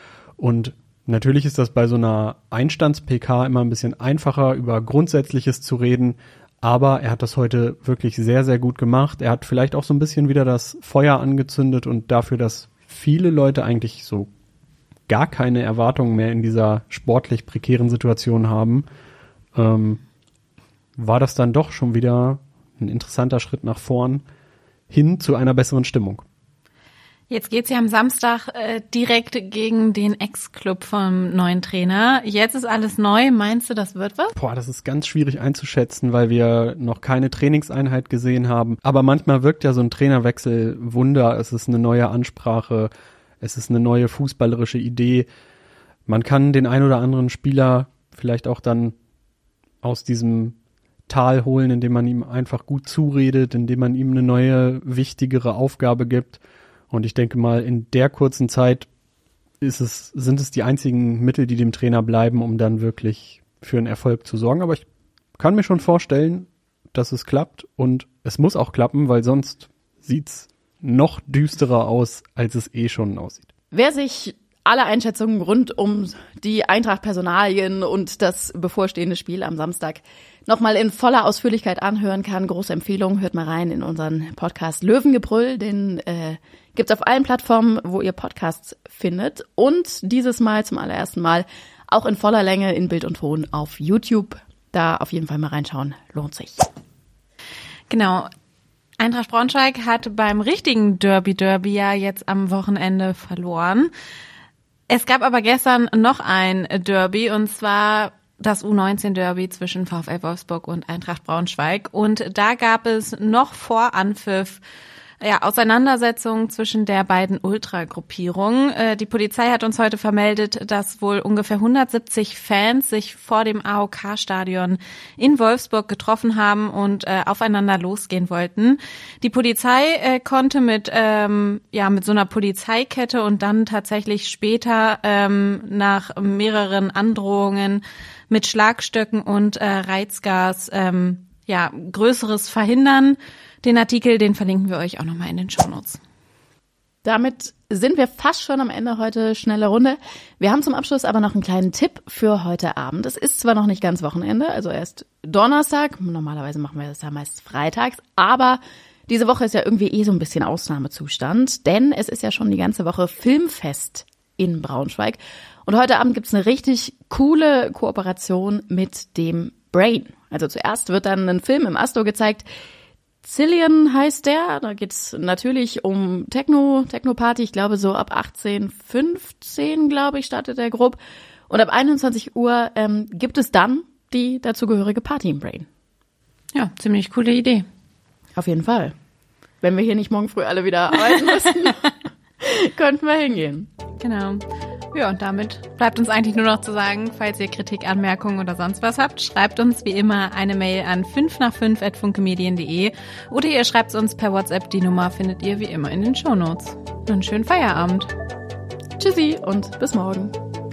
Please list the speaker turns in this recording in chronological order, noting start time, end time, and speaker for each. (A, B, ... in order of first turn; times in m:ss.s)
0:00.4-0:14.3 A
0:15.1-0:18.9 A
0:19.6-0:20.0 A
0:21.0-0:24.2 A
0:24.9-0:26.2 A
0:27.3-0:34.4 B
0:34.4-0:42.9 A
0:43.4-0:45.3 A
0:46.1-0:49.0 A
0:49.8-0:50.6 A
0:51.1-0:58.9 A
0:59.6-1:04.9 A
1:05.4-1:13.5 A
1:13.7-1:36.7 C
1:37.9-1:38.3 B
1:39.0-1:43.9 B
1:44.9-1:54.6 B
1:55.2-2:26.0 B
2:27.0-2:52.5 C
2:53.2-3:01.0 C
3:01.5-3:05.7 C
3:06.5-3:07.7 B
3:08.4-3:08.9 C
3:09.6-3:13.7 C
3:14.0-3:28.1 B
3:29.0-3:30.4 C